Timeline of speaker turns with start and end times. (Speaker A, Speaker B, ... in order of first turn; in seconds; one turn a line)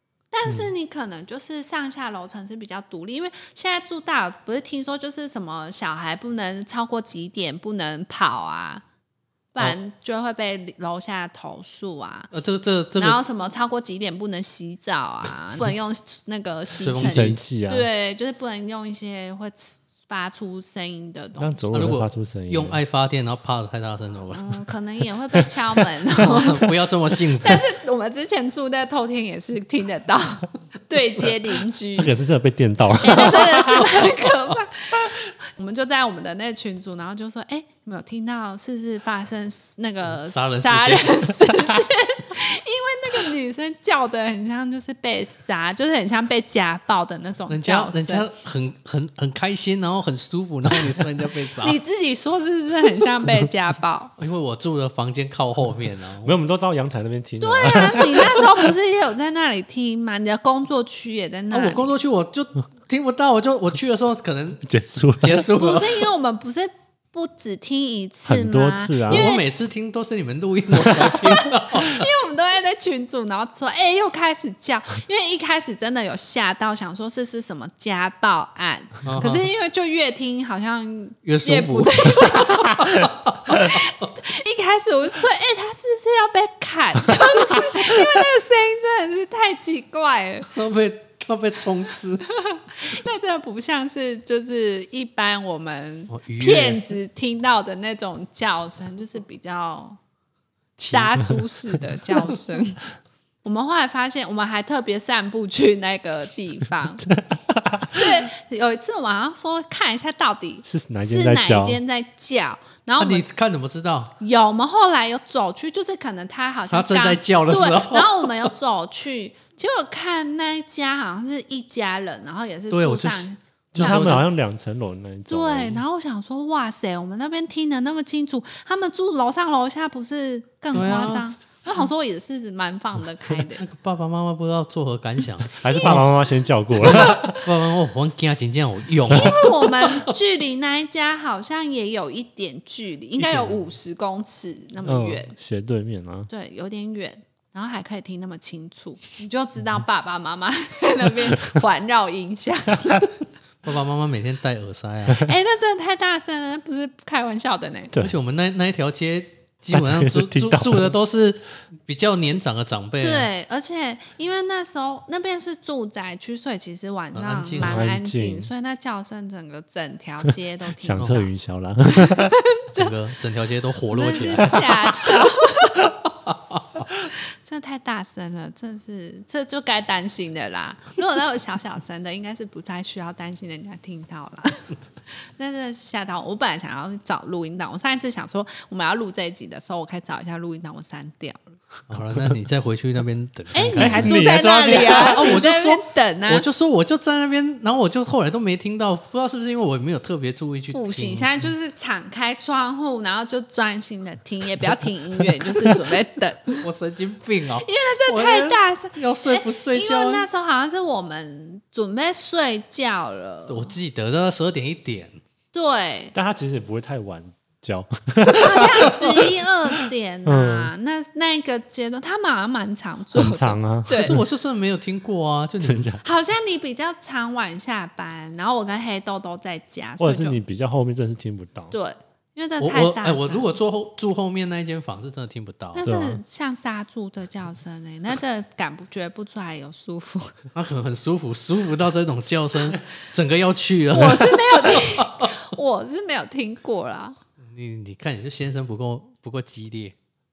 Speaker A: 0.3-8.8
Speaker A: 9.5-12.3
Speaker B: 12.3-13.2
Speaker A: 12.9-21.9
Speaker B: 16.8-17.4
Speaker C: 17.0-17.9
Speaker C: 21.4-22.8
Speaker B: 21.7-24.5
Speaker A: 24.3-26.7
Speaker B: 26.2-27.6
Speaker A: 27.4-32.1
Speaker C: 32.0-33.8
Speaker A: 33.0-48.3
Speaker B: 33.1-34.6
Speaker B: 40.0-41.3
Speaker B: 47.5-51.8
Speaker A: 51.6-54.1
Speaker B: 54.2-56.4
Speaker C: 56.2-58.5
Speaker A: 57.4-61.9
Speaker B: 61.5-66.0
Speaker C: 64.7-65.5
Speaker A: 65.6-69.4
Speaker C: 68.3-69.3
Speaker B: 69.1-72.0
Speaker A: 71.0-90.5
Speaker B: 79.0-79.5
Speaker B: 81.2-83.8
Speaker B: 90.5-92.2
Speaker A: 92.3-100.0
Speaker B: 96.1-96.9
Speaker B: 100.8-101.5
Speaker A: 100.8-102.8
Speaker A: 103.4-107.1
Speaker C: 107.1-108.1
Speaker A: 107.9-113.2
Speaker C: 110.6-111.8
Speaker B: 113.0-114.2
Speaker A: 114.2-124.2
Speaker B: 116.7-118.5
Speaker B: 122.7-124.2
Speaker C: 123.7-125.8
Speaker A: 125.3-133.6
Speaker B: 130.7-131.3
Speaker B: 133.6-136.1
Speaker C: 135.6-137.4
Speaker A: 135.6-136.1
Speaker B: 136.8-140.1
Speaker A: 139.1-145.3
Speaker B: 143.2-143.5
Speaker C: 144.8-146.3
Speaker A: 146.3-153.1
Speaker B: 153.6-155.3
Speaker A: 155.2-157.9
Speaker B: 158.0-163.3
Speaker C: 159.7-160.9
Speaker A: 163.0-171.3
Speaker B: 167.1-167.8
Speaker C: 167.6-168.5
Speaker C: 170.8-172.4
Speaker B: 171.0-171.2
Speaker A: 172.1-172.9
Speaker B: 172.7-174.9
Speaker A: 173.9-175.9
Speaker B: 176.2-176.8
Speaker A: 177.0-184.7
Speaker A: 185.4-191.6
Speaker B: 191.9-201.3
Speaker A: 193.5-196.4
Speaker C: 193.7-195.4
Speaker A: 200.7-206.6
Speaker B: 206.6-210.2
Speaker A: 207.6-213.8
Speaker B: 213.5-215.2
Speaker A: 215.5-216.1
Speaker C: 216.1-219.3
Speaker A: 218.2-224.2
Speaker C: 219.8-220.7
Speaker C: 223.1-224.2
Speaker B: 223.9-226.0
Speaker C: 225.6-226.0
Speaker A: 226.0-230.4
Speaker C: 230.0-231.7
Speaker A: 231.7-233.5
Speaker B: 232.6-235.8
Speaker A: 235.7-240.3
Speaker C: 235.8-236.2
Speaker B: 240.5-245.3
Speaker A: 243.9-247.2
Speaker B: 247.4-249.9